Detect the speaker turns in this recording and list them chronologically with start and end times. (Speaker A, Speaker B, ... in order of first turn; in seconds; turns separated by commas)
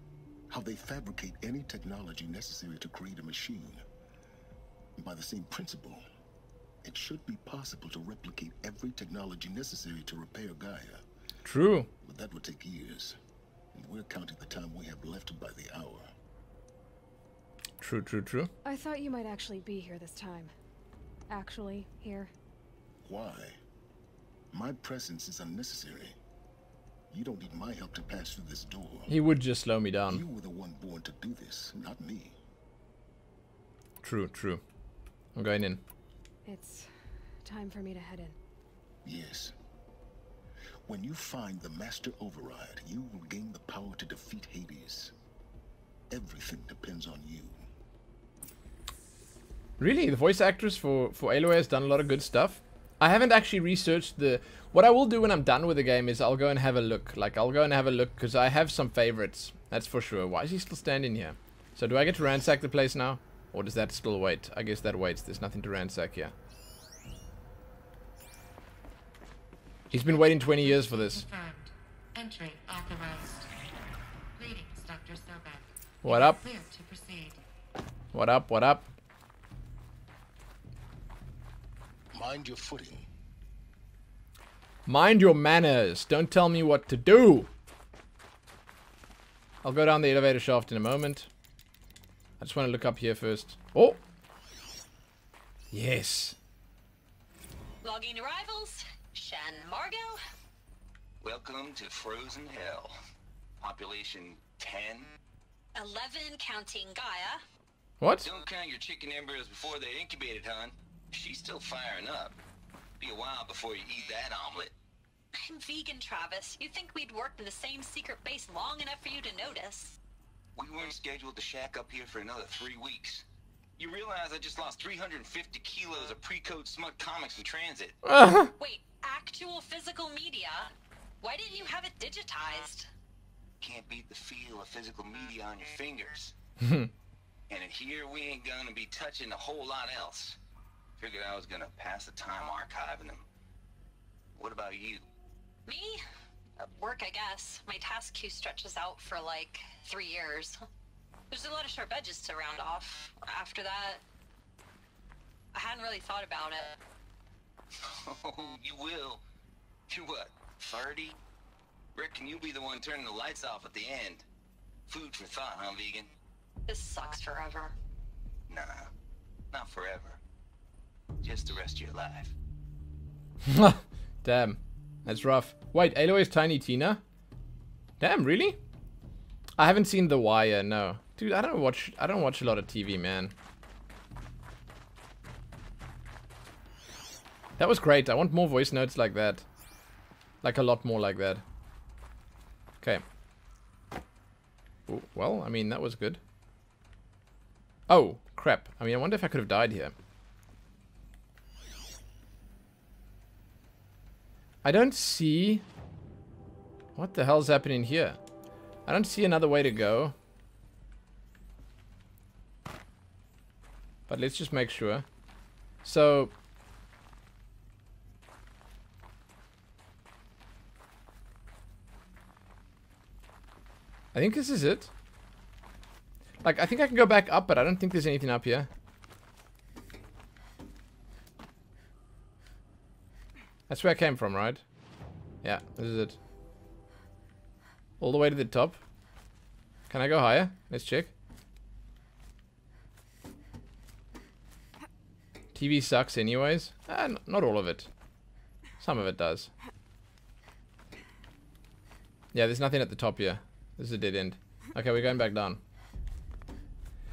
Speaker A: 0.5-3.8, Speaker A: 5.0-6.0, Speaker A: 6.8-11.0, Speaker B: 11.4-11.9, Speaker A: 12.0-13.2, Speaker A: 13.7-16.1, Speaker B: 17.8-18.5, Speaker C: 18.6-20.5, Speaker C: 21.3-22.3, Speaker A: 23.0-23.6, Speaker A: 24.5-26.2, Speaker A: 27.1-29.1, Speaker B: 29.1-30.2, Speaker A: 30.1-32.4, Speaker B: 34.0-34.6, Speaker B: 35.4-35.8, Speaker C: 36.5-36.9, Speaker C: 37.4-38.4, Speaker A: 39.0-39.5, Speaker A: 40.9-45.1, Speaker A: 46.1-47.6, Speaker B: 49.8-66.3, Speaker B: 69.9-71.2, Speaker D: 70.5-73.5, Speaker D: 74.4-77.4, Speaker B: 76.0-76.4, Speaker B: 78.1-78.9, Speaker A: 82.1-83.1, Speaker B: 84.9-87.5, Speaker B: 89.6-91.3, Speaker B: 92.4-94.0, Speaker B: 95.7-96.4, Speaker E: 97.8-100.2, Speaker F: 101.2-103.0, Speaker F: 103.6-105.1, Speaker E: 105.8-107.4, Speaker B: 108.0-108.3, Speaker F: 108.2-112.4, Speaker F: 113.0-114.8, Speaker E: 115.4-120.0, Speaker F: 120.5-123.3, Speaker F: 123.8-128.0, Speaker B: 128.1-128.5, Speaker E: 128.6-132.9, Speaker F: 133.6-136.3, Speaker B: 136.6-136.9, Speaker F: 137.5-140.4, Speaker F: 141.0-143.2, Speaker F: 144.3-145.1, Speaker E: 145.7-146.0, Speaker E: 146.6-150.6, Speaker E: 151.3-154.0, Speaker E: 155.5-156.8, Speaker F: 157.9-159.2, Speaker F: 159.9-161.2, Speaker F: 161.9-164.2, Speaker F: 164.9-166.1, Speaker E: 166.7-167.8, Speaker F: 168.5-168.9, Speaker F: 169.5-170.2, Speaker F: 171.2-172.3, Speaker B: 173.4-177.0, Speaker B: 178.0-178.6, Speaker B: 179.6-183.3, Speaker B: 187.6-189.4, Speaker B: 190.4-191.4, Speaker B: 194.9-196.2, Speaker B: 197.9-199.9, Speaker B: 204.6-205.6, Speaker B: 207.0-208.2, Speaker B: 208.9-210.2, Speaker B: 214.1-215.1, Speaker B: 215.8-216.3, Speaker B: 224.1-224.9, Speaker B: 226.4-228.7, Speaker B: 233.7-234.6, Speaker B: 235.4-236.2, Speaker B: 238.0-238.8, Speaker B: 239.9-241.1, Speaker B: 245.6-247.9, Speaker B: 248.8-249.5, Speaker B: 252.3-255.6